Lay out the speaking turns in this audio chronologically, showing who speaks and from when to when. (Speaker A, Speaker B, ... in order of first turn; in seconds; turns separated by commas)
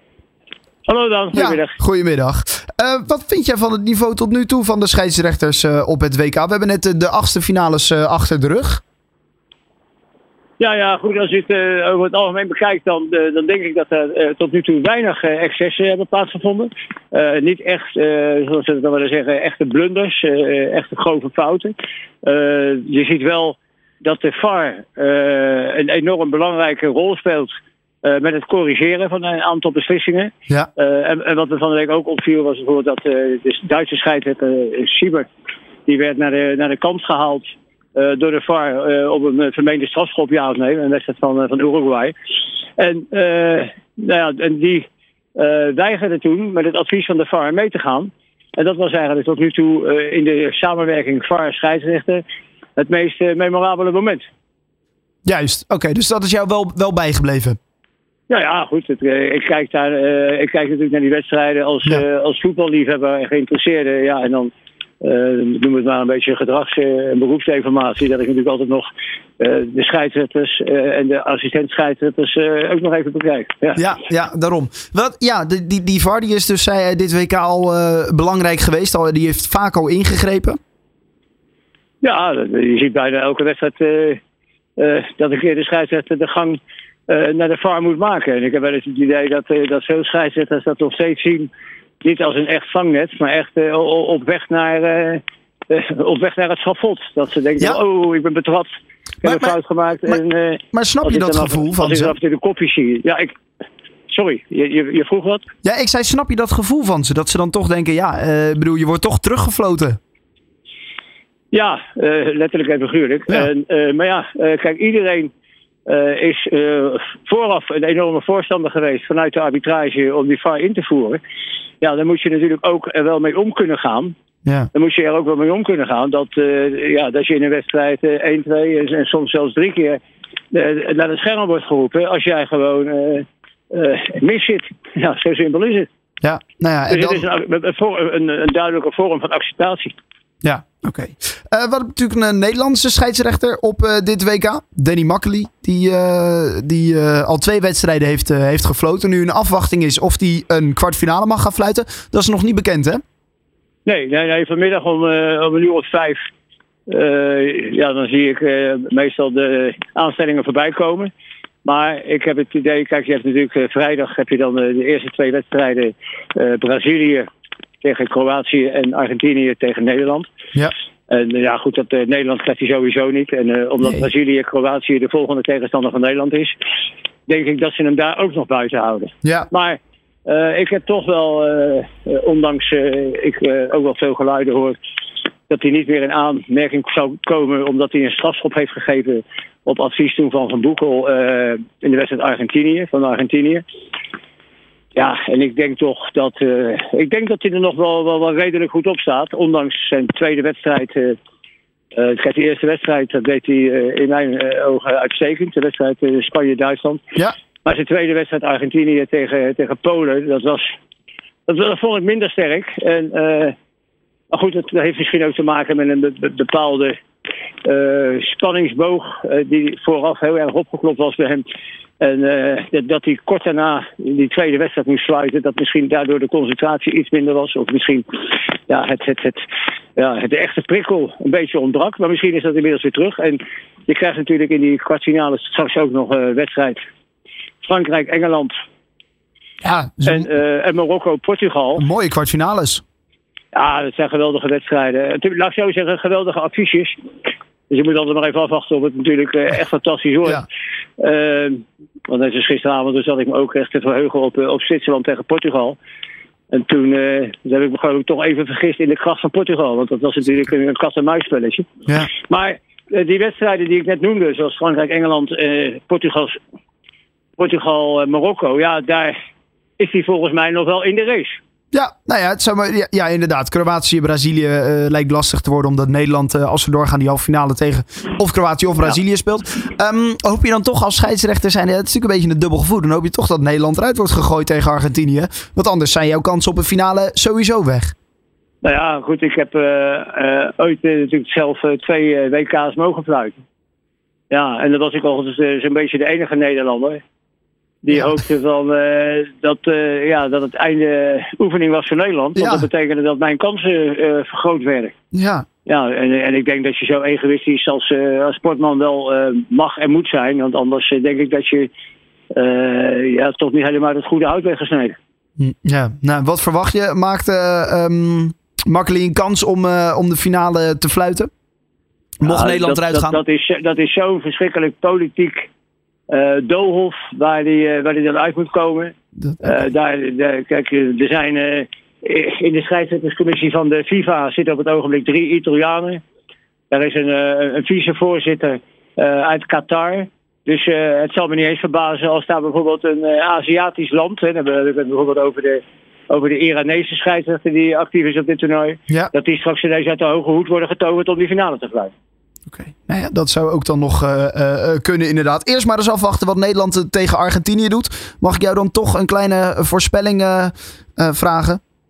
Speaker A: 0.9-1.8, Speaker B: 1.3-8.8, Speaker A: 10.6-27.5, Speaker A: 28.0-35.3, Speaker A: 35.9-42.1, Speaker A: 42.8-52.2, Speaker A: 52.8-54.3, Speaker B: 55.3-57.6, Speaker A: 58.3-73.8, Speaker B: 73.8-80.6, Speaker A: 82.0-84.2, Speaker A: 84.8-91.5, Speaker A: 92.0-103.3, Speaker B: 99.2-99.6, Speaker B: 100.7-102.2, Speaker A: 104.1-105.4, Speaker B: 105.6-110.0, Speaker A: 111.5-115.3, Speaker A: 115.9-121.2, Speaker A: 121.8-124.1, Speaker A: 124.7-130.0, Speaker A: 130.5-135.9, Speaker B: 136.2-137.2, Speaker A: 136.9-139.9, Speaker B: 140.4-153.0, Speaker A: 153.9-156.2, Speaker A: 156.9-161.1, Speaker A: 161.6-167.3, Speaker A: 167.8-170.3, Speaker A: 171.1-176.6, Speaker A: 177.3-184.8, Speaker B: 179.2-179.5, Speaker A: 185.5-193.6, Speaker A: 194.9-201.2, Speaker A: 201.9-207.0, Speaker A: 207.7-210.7, Speaker A: 211.5-213.5, Speaker A: 214.3-216.9, Speaker A: 217.6-221.4, Speaker A: 222.0-236.8, Speaker A: 237.6-238.5, Speaker B: 239.6-240.3, Speaker A: 240.0-241.9, Speaker B: 241.8-242.8, Speaker A: 243.5-247.0, Speaker A: 247.7-250.5, Speaker A: 251.0-255.8, Speaker A: 256.5-266.4, Speaker A: 267.4-269.1, Speaker A: 269.8-271.4, Speaker B: 271.7-287.9, Speaker A: 288.6-293.4, Speaker A: 294.3-297.0, Speaker A: 297.8-304.9, Speaker B: 302.4-302.7, Speaker B: 305.1-305.5, Speaker A: 305.6-311.7, Speaker A: 312.3-315.0, Speaker B: 315.4-321.3, Speaker B: 322.2-323.2, Speaker A: 322.2-325.5, Speaker A: 326.1-336.0, Speaker B: 329.2-329.6, Speaker A: 336.7-351.9, Speaker B: 352.5-361.6